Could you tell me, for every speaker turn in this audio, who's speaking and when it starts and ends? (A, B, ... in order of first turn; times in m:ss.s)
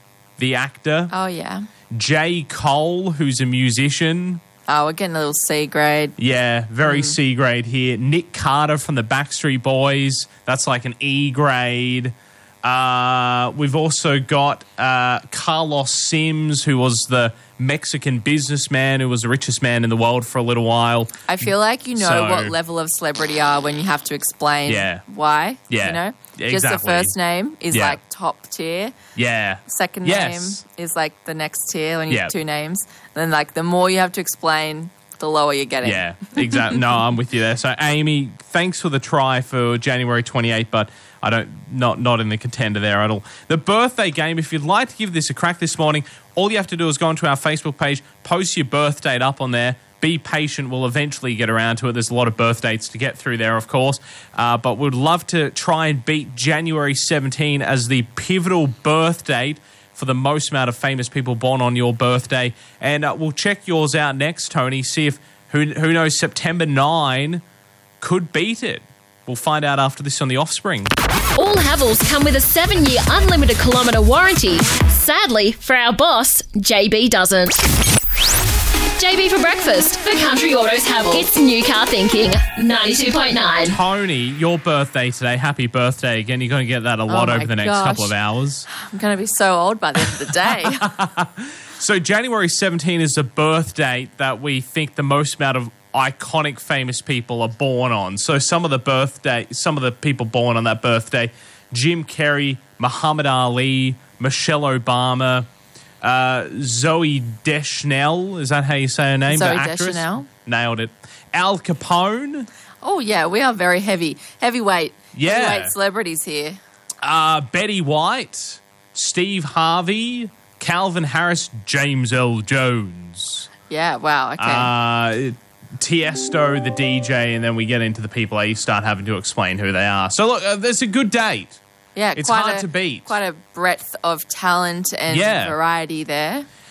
0:00.4-0:01.1 A
0:01.1-0:01.6 B
0:01.9-0:04.4 A
0:04.7-0:06.2 B
0:06.2-0:22.5 A
0:06.8-0:07.2 B
0:21.3-0:29.0 B
0:24.7-0:25.0 A
0:25.7-0:27.1 A
0:27.7-0:28.0 A
0:29.1-0:30.6 A
0:29.7-0:36.8 B
0:32.1-0:32.3 A
0:35.8-1:07.4 A
1:08.0-1:10.9 A
1:11.4-1:17.6 C
1:19.0-1:23.8 C
1:23.6-1:28.7 A
1:27.1-1:28.1 B
1:28.7-1:30.9 B
1:30.2-1:45.5 A
1:46.0-1:52.5 A
1:49.3-1:50.3 B
1:52.8-1:56.6 B
1:55.1-1:55.7 A
1:57.0-2:03.5 A
2:03.7-2:04.7 B
2:04.4-2:11.6 A
2:12.0-2:16.4 B
2:12.1-2:13.1 A
2:15.1-2:15.6 A